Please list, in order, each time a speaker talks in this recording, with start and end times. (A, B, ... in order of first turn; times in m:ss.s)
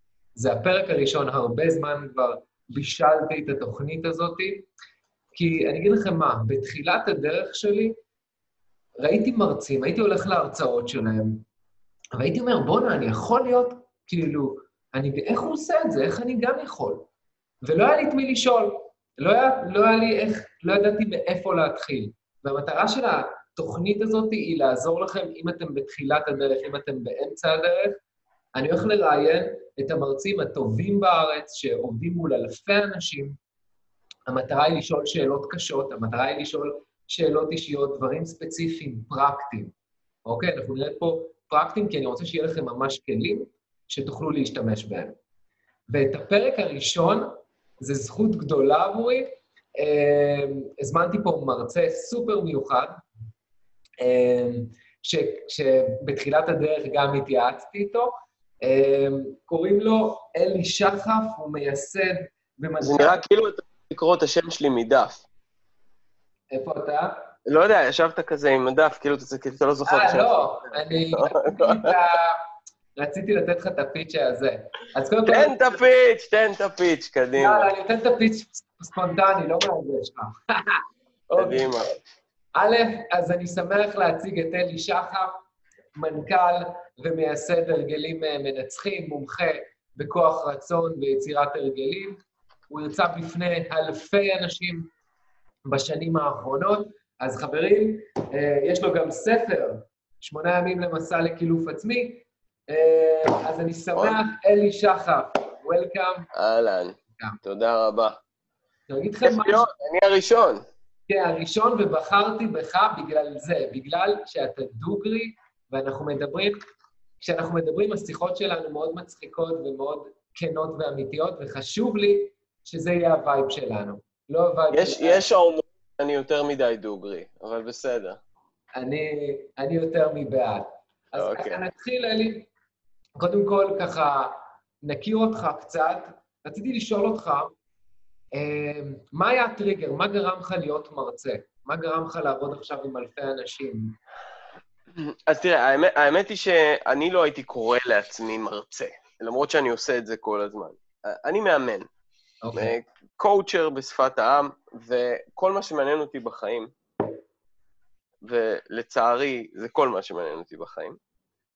0:00.4-0:04.7 A
0:05.3-0:08.0 A
0:09.0-0:11.4 A
0:12.2-0:17.0 A
0:17.6-0:28.0 A
0:28.5-0:33.4 A
0:34.3-0:39.7 A
0:40.2-0:45.2 A
0:45.9-0:53.0 A
0:54.0-1:03.2 A
1:02.8-1:05.2 B
1:06.5-1:07.1 A
1:07.4-1:11.9 B
1:09.8-1:12.4 A
1:13.0-1:15.5 A
1:15.2-1:17.7 B
1:17.4-1:21.9 A
1:21.3-1:21.9 B
1:22.5-1:25.3 A
1:26.0-1:34.9 A
1:35.7-1:46.3 A
1:46.3-1:48.2 B
1:48.9-1:49.6 A
1:49.2-1:50.6 B
1:51.1-1:56.6 A
1:57.2-2:05.2 A
2:04.7-2:08.2 B
2:08.8-2:12.5 A
2:11.2-2:11.6 B
2:13.2-2:17.5 A
2:18.3-2:24.0 A
2:24.9-2:31.9 B
2:32.4-2:32.7 A
2:32.5-2:36.7 B
2:38.2-2:41.0 B